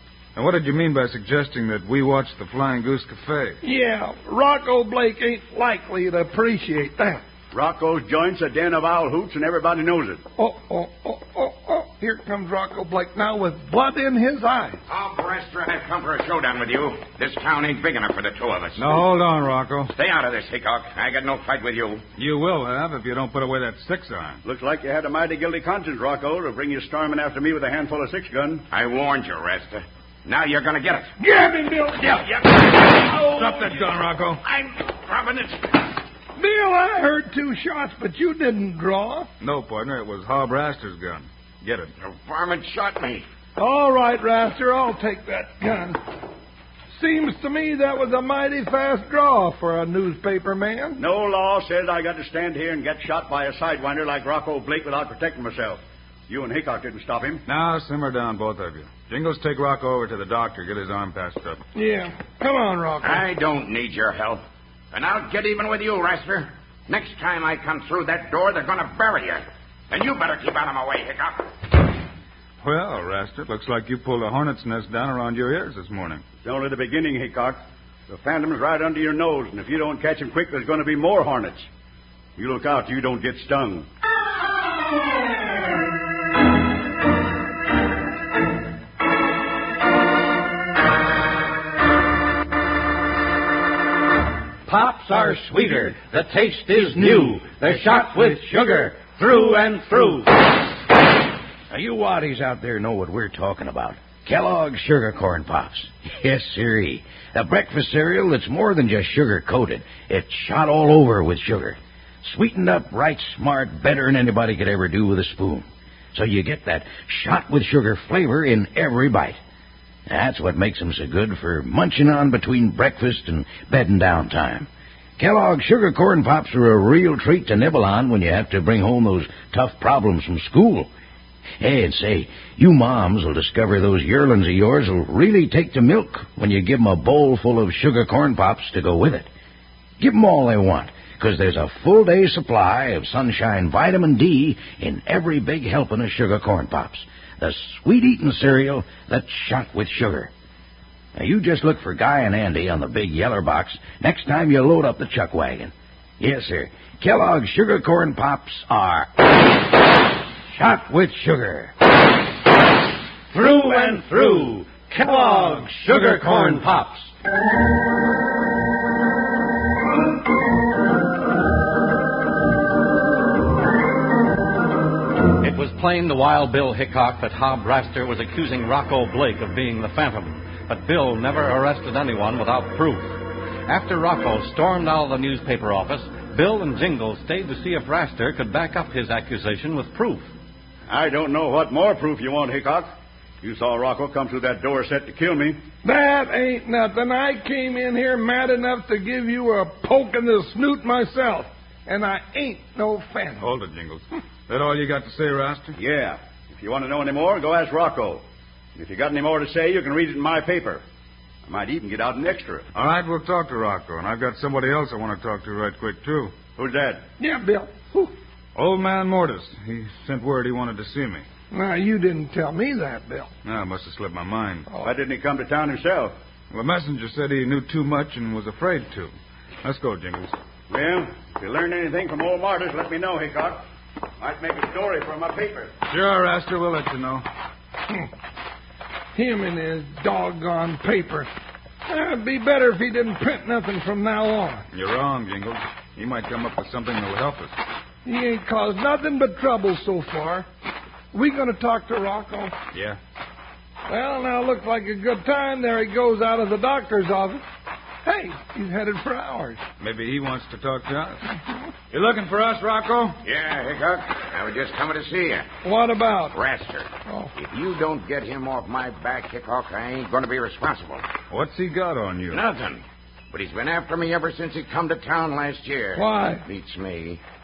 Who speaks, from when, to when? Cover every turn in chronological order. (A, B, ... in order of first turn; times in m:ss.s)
0:00.4-0:03.6 A
0:03.6-0:07.2 B
0:07.5-0:10.2 C
0:10.4-0:14.8 B
0:14.9-0:19.0 D
0:18.8-0:19.9 A
0:19.9-0:22.0 D
0:22.2-0:24.4 A
0:24.4-0:28.6 C
0:28.7-0:31.1 D
0:31.2-0:32.2 B
0:32.0-0:35.8 D
0:33.2-0:34.4 A
0:36.4-0:39.3 B
0:39.4-0:41.9 A
0:42.0-0:43.2 D
0:43.6-0:46.0 B
0:46.9-0:51.0 B
0:51.0-0:57.4 C
0:57.4-1:01.6 A
1:01.7-1:03.2 B
1:03.0-1:11.4 D
1:12.6-1:16.3 A
1:16.4-1:21.7 C
1:22.4-1:23.9 C
1:34.7-1:40.2 E
1:35.2-1:35.8 F
1:36.7-1:38.8 F
1:41.7-1:59.4 F
2:00.1-2:10.9 F
2:11.6-2:19.3 F
2:20.0-2:30.3 F
2:31.1-2:39.1 F
2:40.5-2:41.7 F
2:43.3-2:47.1 E
2:55.4-3:03.2 E
3:03.7-3:10.3 E
3:10.9-3:12.9 C
3:13.4-3:15.6 C
3:15.8-3:23.5 B
3:23.4-3:25.8 A
3:25.8-3:28.2 C
3:28.8-3:30.8 C
3:31.4-3:32.7 C
3:32.7-3:36.4 A
3:36.5-3:37.0 C
3:37.2-3:38.1 B
3:38.5-3:41.2 A
3:41.5-3:43.3 B
3:43.4-3:44.7 A
3:44.7-3:44.9 B
3:44.8-3:46.1 C
3:46.5-3:50.4 A
3:50.7-3:53.6 C
3:54.2-3:55.8 C
3:55.9-3:57.2 A
3:59.1-4:01.3 B
4:01.8-4:04.6 B
4:04.7-4:07.6 A
4:08.0-4:10.5 B
4:11.1-4:12.5 B
4:12.7-4:13.0 A
4:13.8-4:17.4 B
4:18.0-4:19.6 B
4:19.8-4:21.2 A
4:21.9-4:23.2 A
4:23.2-4:25.5 D
4:25.6-4:26.4 B
4:26.3-4:31.0 D
4:27.0-4:27.3 B
4:31.3-4:32.4 A
4:32.3-4:37.2 D
4:36.0-4:36.4 B